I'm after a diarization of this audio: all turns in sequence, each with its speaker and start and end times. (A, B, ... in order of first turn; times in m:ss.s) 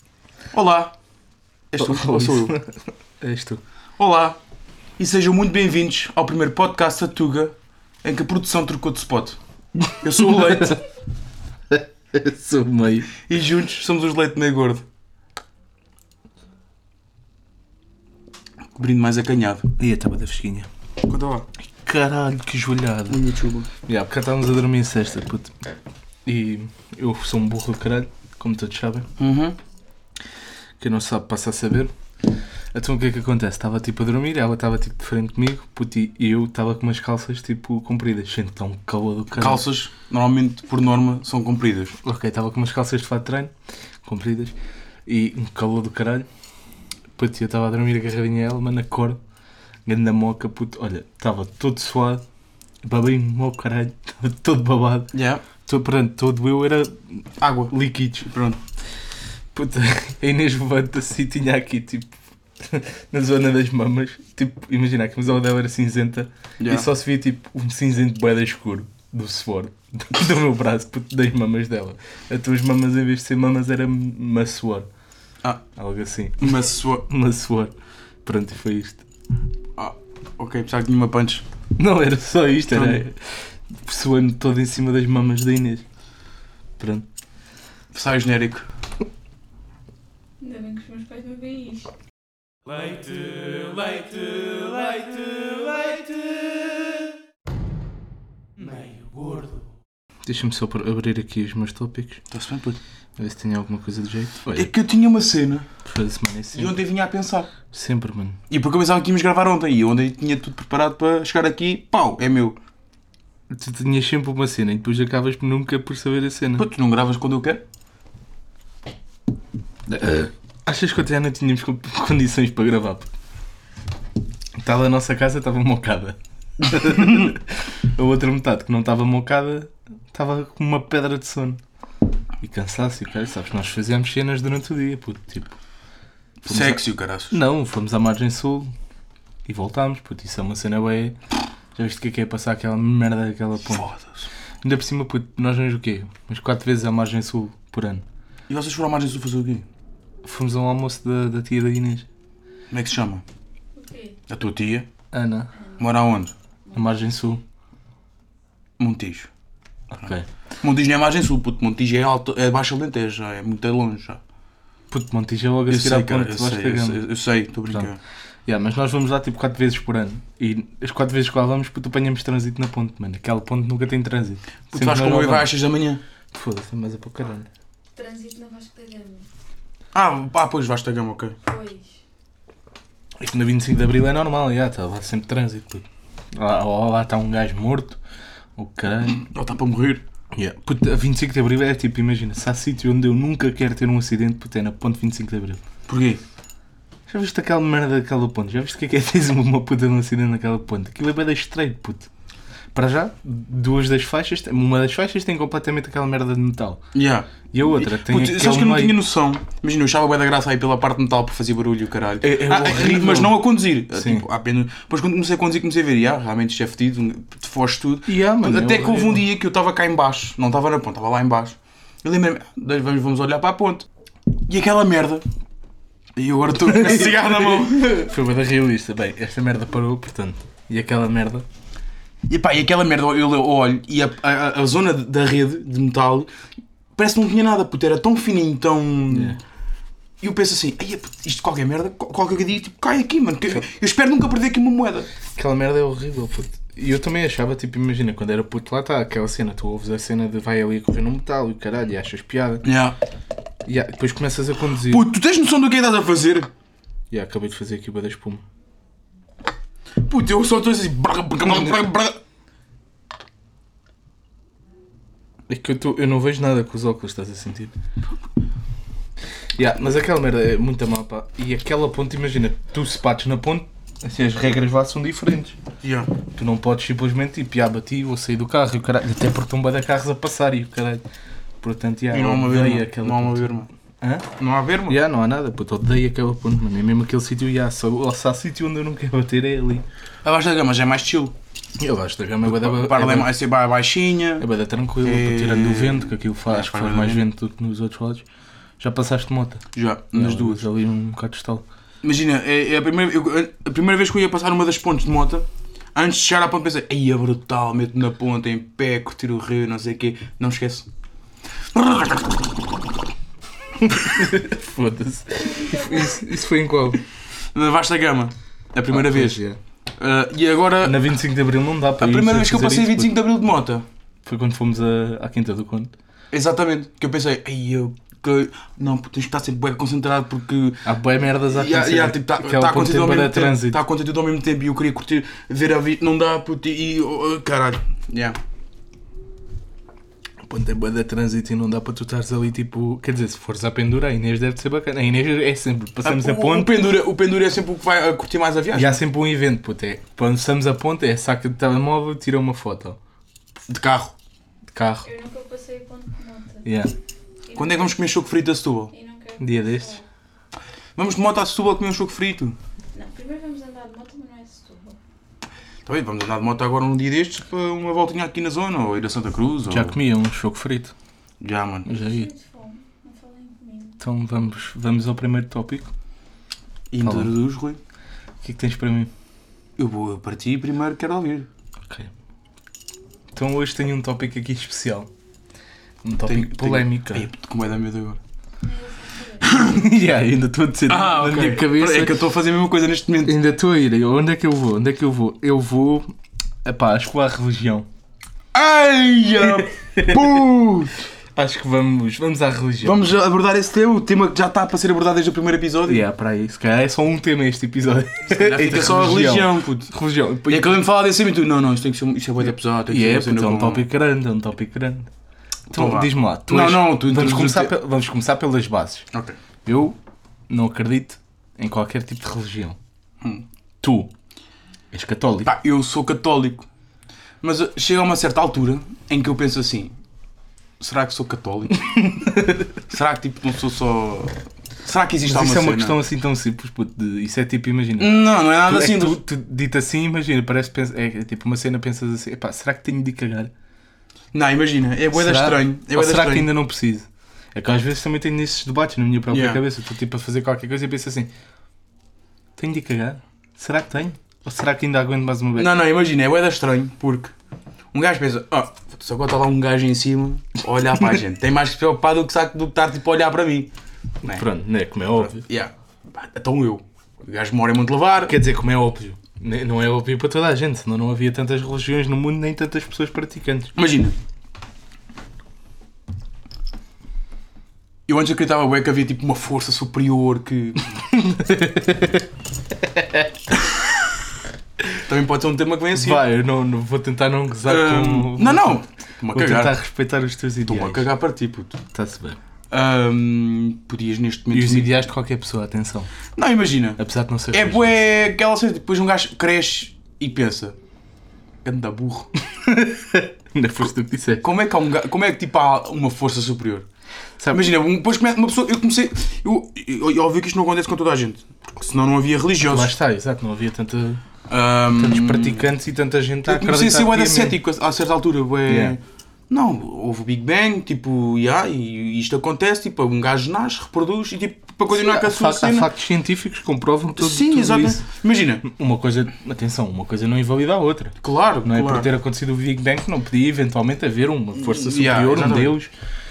0:00.5-0:01.0 A
0:01.7-0:02.6 A
0:01.8-0:02.7 B
0:03.2-0:03.6 B
0:04.0-0:04.4 A
0:05.0-0:09.4 A
0:10.0-0:10.8 A
0:10.2-0:10.8 B
0:11.7-0:13.1 B
0:13.2-0:14.8 A
0:18.8-0:19.7 A
0:19.8-0:20.7 B
0:21.0-0:21.5 A
0:21.8-0:23.2 B
0:23.1-0:23.7 A
0:23.8-0:25.5 B
0:26.3-0:29.1 B
0:29.2-0:29.6 A
0:30.8-0:31.9 B
0:32.7-0:39.6 B
0:39.4-0:42.0 A
0:42.0-0:43.5 B
0:44.0-0:44.6 B
0:45.1-0:46.3 B
0:47.2-0:49.2 B
0:49.9-0:52.2 B
0:52.8-0:58.3 B
0:55.1-0:55.4 A
0:57.4-0:57.7 A
0:58.3-0:58.6 A
0:59.5-1:14.9 B
1:06.6-1:06.9 A
1:15.8-1:17.7 B
1:16.4-1:17.0 A
1:18.2-1:19.0 B
1:19.8-1:21.4 A
1:21.8-1:25.8 B
1:22.7-1:23.0 A
1:26.8-1:27.1 B
1:27.9-1:28.7 A
1:30.4-1:31.9 C
1:32.8-1:36.4 A
1:38.6-1:39.4 A
1:40.2-1:42.2 B
1:42.3-1:42.8 A
1:43.2-1:44.7 B
1:44.5-1:45.7 A
1:45.9-1:46.8 B
1:46.5-1:47.5 A
1:47.7-1:48.4 B
1:48.5-1:52.6 A
1:53.5-1:56.7 B
1:56.6-1:57.6 A
1:59.9-2:03.1 B
2:04.6-2:11.6 B
2:12.4-2:15.6 B
2:16.4-2:17.4 A
2:16.5-2:18.7 B
2:19.5-2:21.2 B
2:21.8-2:23.9 B
2:23.7-2:24.2 A
2:24.6-2:28.0 B
2:28.5-2:29.7 A
2:30.2-2:32.1 B
2:32.7-2:33.2 A
2:33.8-2:34.2 C
2:34.3-2:34.9 A
2:35.1-2:35.5 B
2:35.5-2:35.9 C
2:35.8-2:36.3 A
2:36.7-2:37.4 B
2:38.8-2:39.3 A
2:39.9-2:40.2 B
2:40.0-2:44.2 A
2:44.9-2:47.0 B
2:45.7-2:48.0 A
2:48.5-2:55.5 B
2:54.7-2:56.0 A
2:56.3-2:57.5 B
2:58.0-2:59.3 C
2:59.9-3:01.4 A
3:01.4-3:02.0 C
3:03.2-3:08.0 B
3:08.6-3:09.2 B
3:09.2-3:10.0 A
3:10.3-3:15.6 B
3:15.9-3:16.2 A
3:17.1-3:22.1 B
3:22.7-3:26.8 B
3:26.9-3:43.9 A
3:27.5-3:29.0 B
3:32.2-3:33.4 B
3:33.9-3:34.2 B
3:38.1-3:39.2 B
3:44.5-3:45.2 A
3:46.2-3:48.1 A
3:46.5-3:51.4 B
3:52.3-3:56.3 A
3:57.0-3:59.4 A
3:59.1-3:59.4 B
4:00.2-4:05.1 A
4:05.4-4:12.6 B
4:12.6-4:13.0 A
4:13.6-4:15.1 B
4:14.8-4:16.5 A
4:17.1-4:18.4 B
4:20.0-4:22.2 A
4:21.4-4:21.8 B
4:25.5-4:27.7 B
4:29.6-4:35.6 B
4:35.8-4:36.1 A
4:36.3-4:41.0 B
4:41.6-4:44.3 B
4:42.1-4:43.7 A
4:44.4-4:45.0 A
4:44.9-4:49.8 B
4:50.2-4:51.3 A
4:51.8-4:53.3 B
4:52.4-4:54.5 A
4:54.4-4:58.2 B
4:55.0-4:57.3 A
4:58.8-5:01.6 B
4:59.8-5:00.6 A
5:02.0-5:10.9 A
5:11.8-5:12.4 A
5:13.8-5:17.0 B
5:15.4-5:16.4 C
5:17.5-5:19.4 A
5:18.9-5:19.6 B
5:20.0-5:21.0 A
5:20.8-5:23.1 B
5:22.0-5:23.8 A
5:24.2-5:25.9 B
5:26.3-5:30.9 A
5:30.8-5:33.8 B
5:31.5-5:38.4 A
5:40.4-5:46.7 B
5:46.0-5:49.0 A
5:48.7-5:53.0 B
5:53.7-5:54.2 A
5:54.7-5:55.1 B
5:55.0-5:56.7 C
5:56.6-5:56.9 B
5:57.5-5:58.0 C
5:57.6-5:58.9 A
5:58.9-6:00.1 C
5:59.4-6:00.0 B
6:01.0-6:02.6 A
6:02.9-6:05.0 C
6:05.9-6:10.0 A
6:09.7-6:10.9 B
6:11.4-6:11.9 A
6:11.9-6:12.3 B
6:11.9-6:14.0 C
6:14.0-6:15.9 B
6:16.9-6:17.8 A
6:17.0-6:17.3 B
6:18.4-6:19.1 B
6:19.8-6:21.5 A
6:23.3-6:25.1 B
6:26.0-6:27.3 B
6:26.2-6:28.2 A
6:28.6-6:29.8 C
6:29.4-6:29.8 A
6:29.5-6:32.2 B
6:30.9-6:33.4 A
6:33.2-6:36.1 B
6:36.6-6:37.9 B
6:38.5-6:41.0 A
6:39.4-6:40.4 B
6:41.4-6:43.1 B
6:42.8-6:46.0 A
6:45.8-6:50.8 B
6:48.2-6:49.9 A
6:50.5-6:53.9 A
6:52.9-6:55.1 B
6:55.7-6:57.7 A
6:55.7-6:59.1 B
6:59.7-7:00.0 B
7:00.5-7:02.8 B
7:03.8-7:04.1 B
7:04.9-7:05.5 B
7:05.4-7:06.7 A
7:07.4-7:10.0 A
7:10.8-7:11.9 A
7:12.0-7:12.7 B
7:12.9-7:16.0 A
7:15.2-7:23.5 B
7:18.0-7:19.2 A
7:24.3-7:26.5 A
7:25.1-7:31.3 B
7:29.3-7:29.6 A
7:32.6-7:35.8 B
7:35.6-7:37.3 A
7:37.9-7:43.7 A
7:44.2-7:45.4 B
7:45.2-7:48.4 A
7:48.3-7:53.7 B
7:53.8-7:54.2 A
7:58.1-8:01.0 A
8:01.1-8:03.3 B
8:05.0-8:06.2 A
8:05.9-8:11.1 B
8:07.7-8:09.7 A
8:10.7-8:11.8 A
8:11.9-8:12.4 B
8:12.7-8:14.9 A
8:14.5-8:16.1 B
8:16.4-8:17.0 A
8:17.0-8:18.0 B
8:17.5-8:20.8 A
8:21.6-8:22.3 A
8:22.5-8:24.5 B
8:24.4-8:26.9 A
8:27.4-8:27.7 B
8:27.5-8:32.9 A
8:32.6-8:34.2 B
8:34.5-8:35.7 A
8:34.9-8:37.6 B
8:36.5-8:45.9 A
8:38.7-8:39.0 B
8:44.9-8:48.0 B
8:47.2-8:48.6 A
8:48.6-8:55.9 B
8:51.2-8:52.1 A
8:54.6-8:55.8 A